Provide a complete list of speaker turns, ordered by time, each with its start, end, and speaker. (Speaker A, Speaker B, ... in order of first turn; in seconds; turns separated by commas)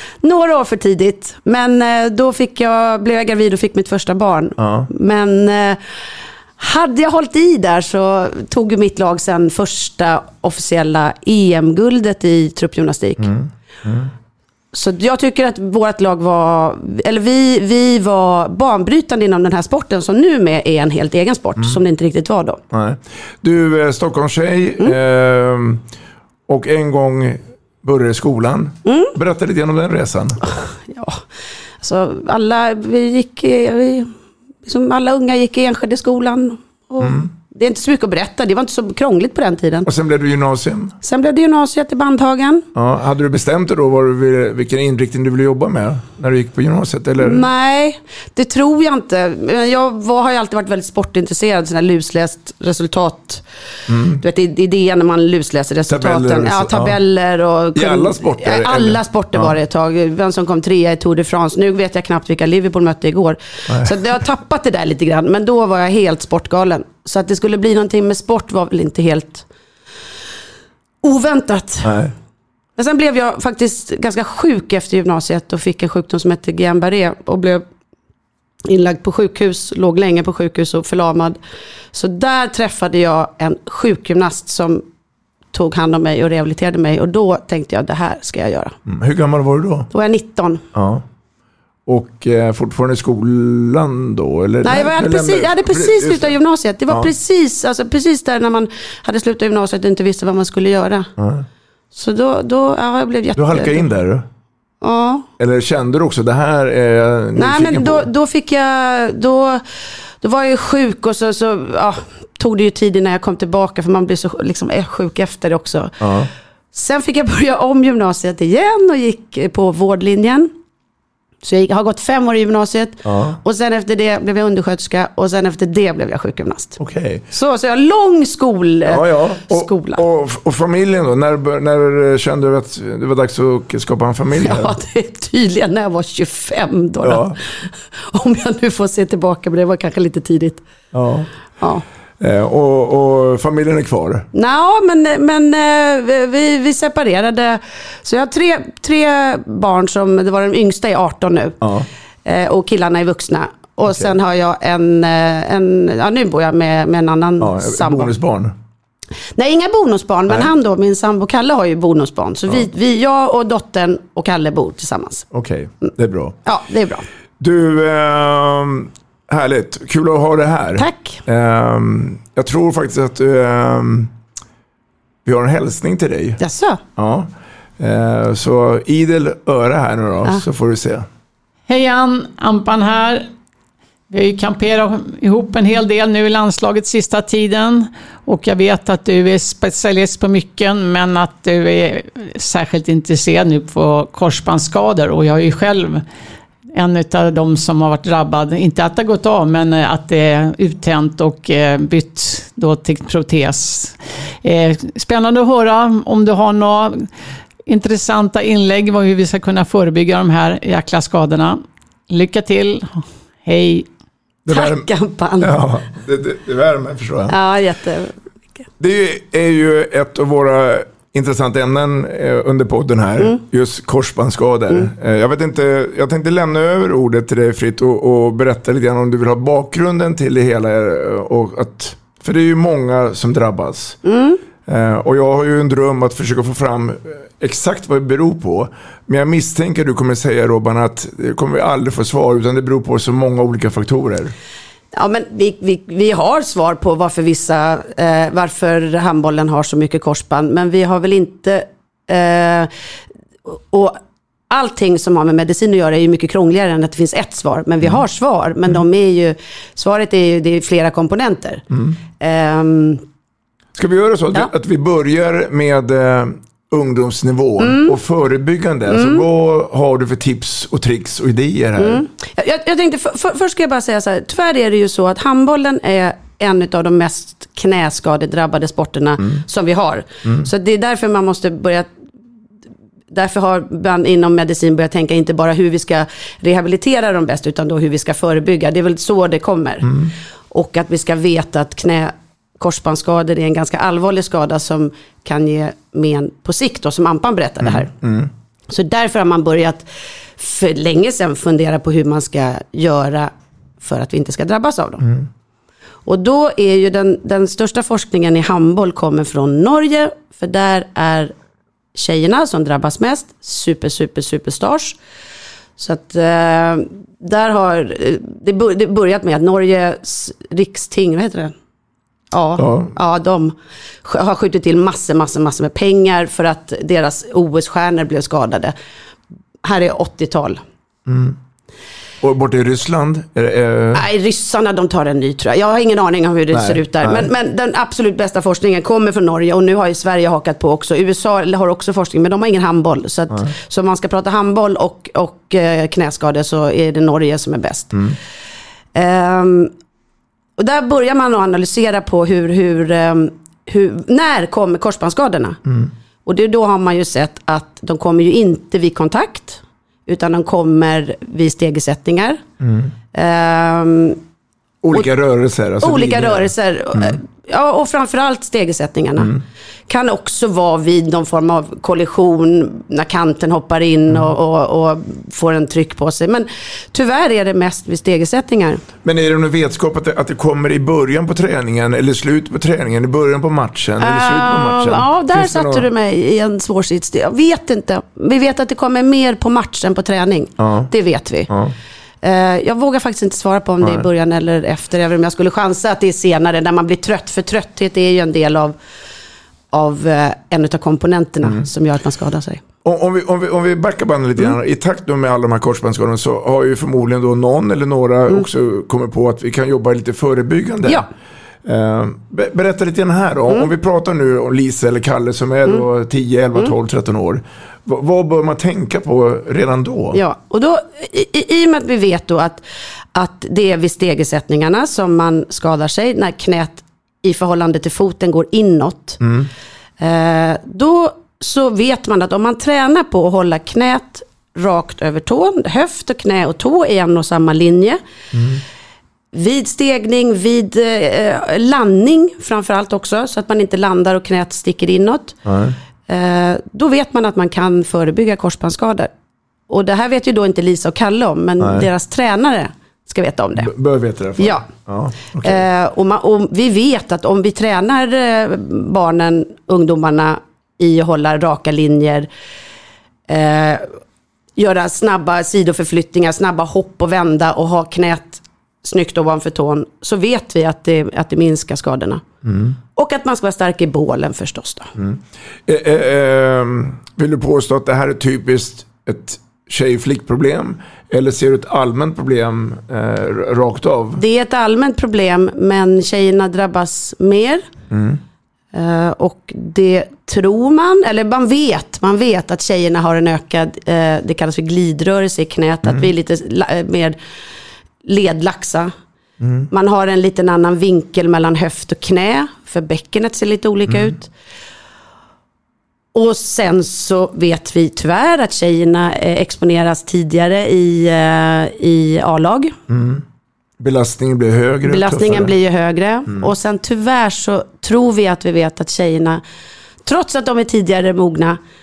Speaker A: 0.2-5.8, Speaker B: 4.6-4.9, Speaker A: 6.6-13.3, Speaker B: 13.2-14.1, Speaker A: 14.7-22.6, Speaker B: 22.7-25.8, Speaker B: 26.5-30.4, Speaker A: 28.9-29.1, Speaker A: 30.4-31.2, Speaker A: 31.8-34.1, Speaker A: 34.6-39.9, Speaker B: 37.0-37.3, Speaker B: 39.8-41.0, Speaker A: 41.0-42.6, Speaker B: 42.7-47.5, Speaker A: 47.2-53.4, Speaker B: 53.9-54.2, Speaker A: 54.1-69.5, Speaker B: 55.9-57.0, Speaker B: 57.7-59.5, Speaker A: 71.0-71.9, Speaker B: 71.8-72.1, Speaker A: 72.8-77.6, Speaker A: 78.6-81.4, Speaker A: 81.9-84.8, Speaker A: 85.5-88.8, Speaker B: 88.8-89.9, Speaker A: 89.9-90.6, Speaker B: 90.7-91.0, Speaker B: 91.8-96.3, Speaker A: 94.6-101.1, Speaker B: 101.2-101.5, Speaker A: 101.9-103.8, Speaker B: 103.3-104.3, Speaker A: 104.8-105.2, Speaker B: 105.4-108.1, Speaker A: 107.3-109.6, Speaker A: 110.2-116.0, Speaker B: 116.0-116.3, Speaker A: 116.7-120.5, Speaker A: 121.4-126.8, Speaker B: 123.0-123.4, Speaker B: 126.8-127.2, Speaker A: 127.3-130.0, Speaker B: 128.9-134.7, Speaker A: 134.4-140.6, Speaker B: 137.0-137.4, Speaker B: 140.9-141.3, Speaker B: 142.2-144.3, Speaker A: 144.3-151.6, Speaker B: 151.6-151.9, Speaker A: 152.2-158.1, Speaker B: 157.4-158.5, Speaker A: 159.3-165.2, Speaker B: 165.3-166.3, Speaker A: 166.4-167.1, Speaker B: 167.4-174.1, Speaker A: 170.8-171.2, Speaker B: 175.2-176.4, Speaker A: 176.4-176.8, Speaker B: 176.9-181.1, Speaker C: 181.7-183.3, Speaker C: 184.1-196.0, Speaker C: 196.7-207.1, Speaker C: 207.7-213.8, Speaker B: 214.4-214.9, Speaker A: 214.5-215.6, Speaker B: 215.4-217.3, Speaker A: 217.3-218.6, Speaker B: 218.8-234.0, Speaker A: 234.0-234.4, Speaker B: 234.7-244.3, Speaker A: 244.9-252.7, Speaker A: 253.4-254.0, Speaker A: 254.5-261.6, Speaker B: 261.7-262.0, Speaker A: 262.2-263.0, Speaker B: 263.8-272.0, Speaker A: 267.6-267.9, Speaker A: 268.9-269.2, Speaker A: 271.8-281.9, Speaker A: 283.1-289.9, Speaker B: 289.8-290.1, Speaker A: 290.5-297.9, Speaker B: 297.6-298.3, Speaker A: 298.7-299.8, Speaker A: 300.4-305.0, Speaker B: 305.0-305.3, Speaker A: 306.1-311.3, Speaker A: 311.9-315.0, Speaker A: 315.8-321.5, Speaker A: 322.3-328.7, Speaker B: 322.6-322.9, Speaker A: 329.6-330.6, Speaker B: 331.1-331.4, Speaker B: 332.2-334.0, Speaker A: 333.9-348.0, Speaker B: 336.5-337.3, Speaker A: 348.9-349.7, Speaker A: 350.6-355.6, Speaker B: 355.6-355.9, Speaker A: 356.2-362.4, Speaker B: 362.6-362.9, Speaker A: 363.1-364.2, Speaker B: 364.8-367.2, Speaker A: 365.8-369.3, Speaker A: 369.9-378.8, Speaker B: 379.0-385.9, Speaker A: 384.0-391.5, Speaker B: 390.6-390.9, Speaker B: 391.5-391.7, Speaker A: 392.2-398.8, Speaker B: 393.8-394.1, Speaker A: 399.7-402.6, Speaker B: 402.8-411.1, Speaker B: 411.6-420.2, Speaker A: 420.1-422.6, Speaker A: 423.1-429.2, Speaker B: 429.2-429.5, Speaker A: 430.0-438.0, Speaker B: 438.3-438.6, Speaker A: 439.3-445.4, Speaker B: 445.4-445.8, Speaker A: 446.1-449.1, Speaker A: 449.7-453.7, Speaker B: 451.6-451.9, Speaker B: 453.6-455.6, Speaker A: 454.4-454.6, Speaker A: 455.4-462.3, Speaker A: 463.3-463.9, Speaker A: 464.6-472.2, Speaker B: 472.4-472.8, Speaker A: 472.9-474.9, Speaker B: 475.0-484.2, Speaker A: 484.2-487.7, Speaker B: 487.9-488.2, Speaker A: 488.7-497.1, Speaker A: 498.0-498.9, Speaker B: 499.4-499.7, Speaker A: 499.7-504.3, Speaker B: 503.9-504.1, Speaker A: 506.1-512.7, Speaker B: 512.9-513.2, Speaker B: 513.8-515.5, Speaker A: 514.9-519.4, Speaker A: 520.0-521.6